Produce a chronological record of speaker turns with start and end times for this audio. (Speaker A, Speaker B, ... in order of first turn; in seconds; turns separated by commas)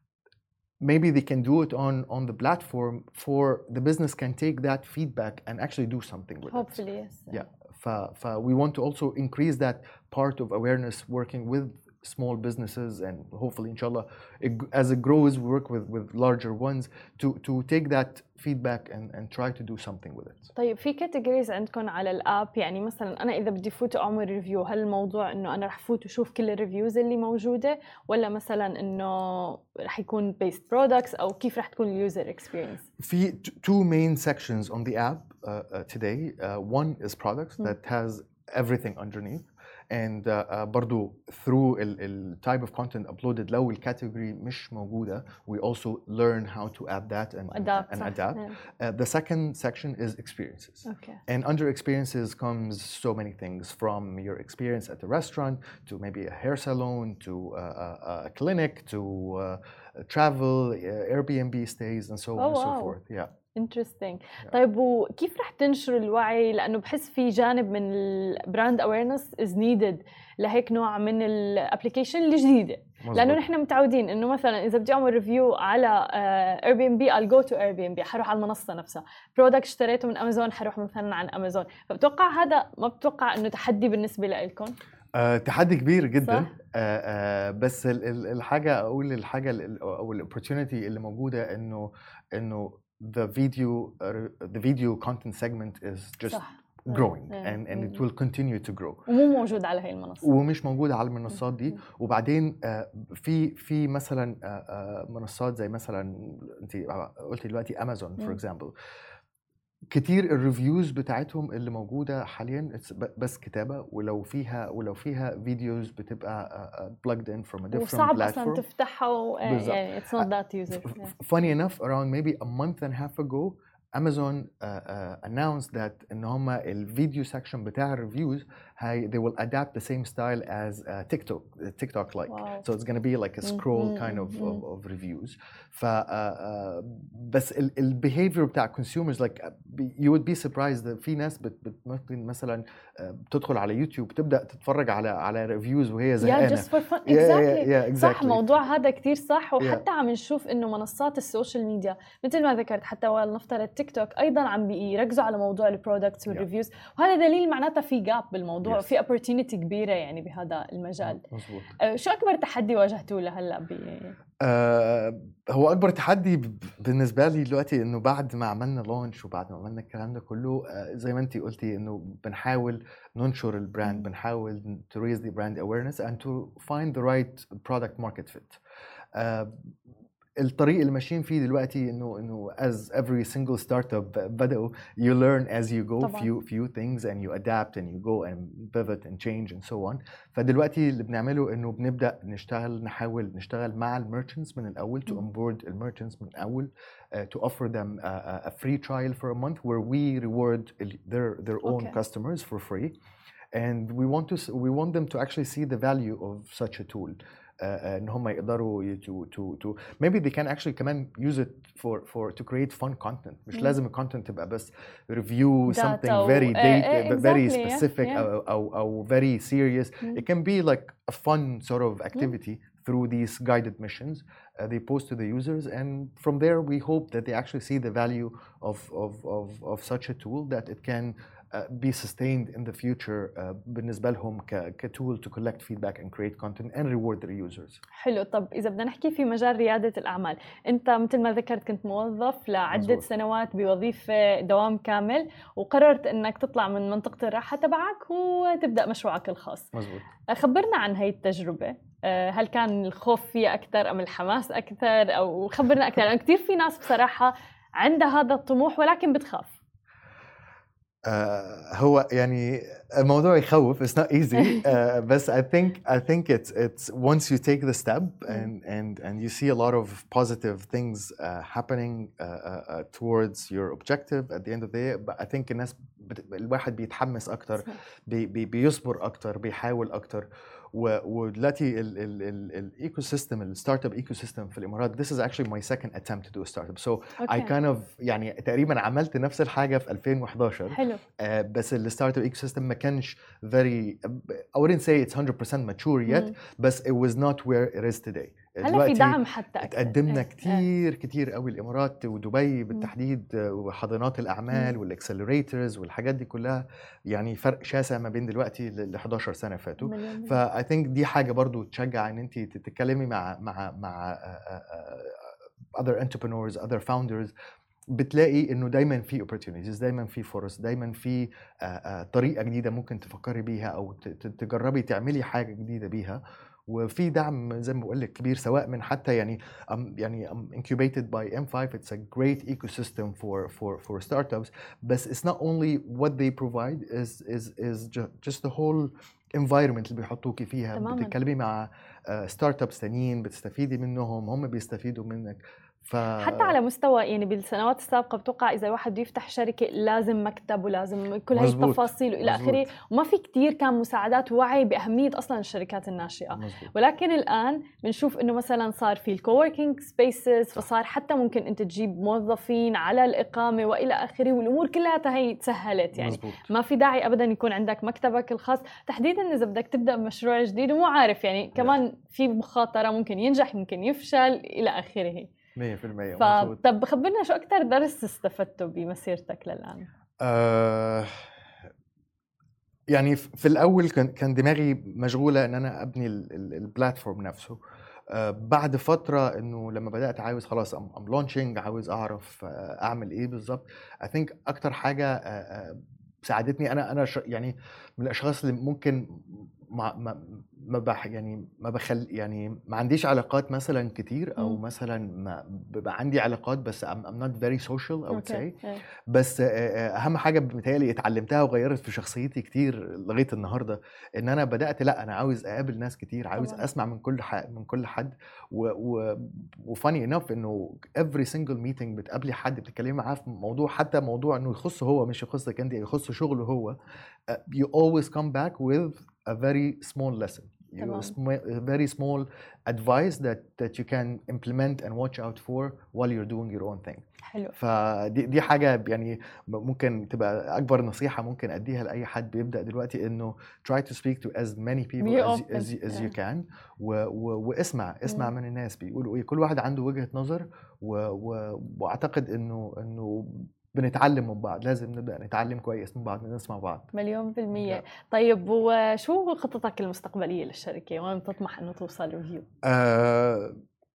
Speaker A: 0.8-20.5, Speaker B: 6.5-7.4, Speaker B: 20.6-32.9, Speaker A: 33.0-63.3, Speaker B: 47.5-48.5, Speaker B: 50.9-51.2, Speaker B: 62.4-63.0, Speaker B: 63.5-84.8, Speaker A: 73.0-73.4, Speaker A: 85.1-99.1, Speaker B: 86.2-86.5, Speaker B: 96.3-98.0, Speaker B: 99.1-100.3, Speaker A: 100.2-108.7, Speaker A: 109.9-118.6, Speaker B: 117.7-121.1, Speaker A: 119.4-120.3, Speaker A: 120.8-148.4, Speaker B: 132.3-132.7, Speaker B: 133.4-134.6, Speaker B: 146.2-161.2, Speaker A: 161.0-161.7, Speaker B: 161.8-164.2, Speaker A: 164.4-178.6, Speaker A: 179.1-179.6, Speaker A: 180.4-202.9, Speaker B: 186.0-186.3, Speaker B: 201.7-202.0, Speaker A: 203.5-237.8, Speaker B: 215.7-218.3, Speaker B: 238.0-249.7, Speaker A: 242.7-243.1, Speaker A: 249.7-250.1, Speaker B: 250.3-259.6, Speaker A: 261.0-317.3, Speaker B: 287.2-287.5, Speaker B: 290.7-291.0, Speaker B: 298.6-300.6, Speaker B: 309.8-310.4, Speaker A: 317.9-346.6, Speaker B: 340.8-341.1, Speaker B: 346.2-375.3, Speaker A: 351.3-352.7, Speaker A: 356.3-356.7, Speaker A: 365.9-366.5, Speaker A: 375.6-376.6, Speaker B: 376.2-379.9, Speaker A: 380.2-381.1, Speaker A: 382.9-426.8, Speaker B: 408.1-408.8, Speaker B: 416.4-416.6, Speaker A: 427.3-456.9, Speaker B: 430.8-431.1, Speaker B: 437.3-437.5, Speaker B: 445.0-446.1, Speaker B: 456.9-462.5, Speaker A: 457.5-457.8, Speaker A: 462.6-463.6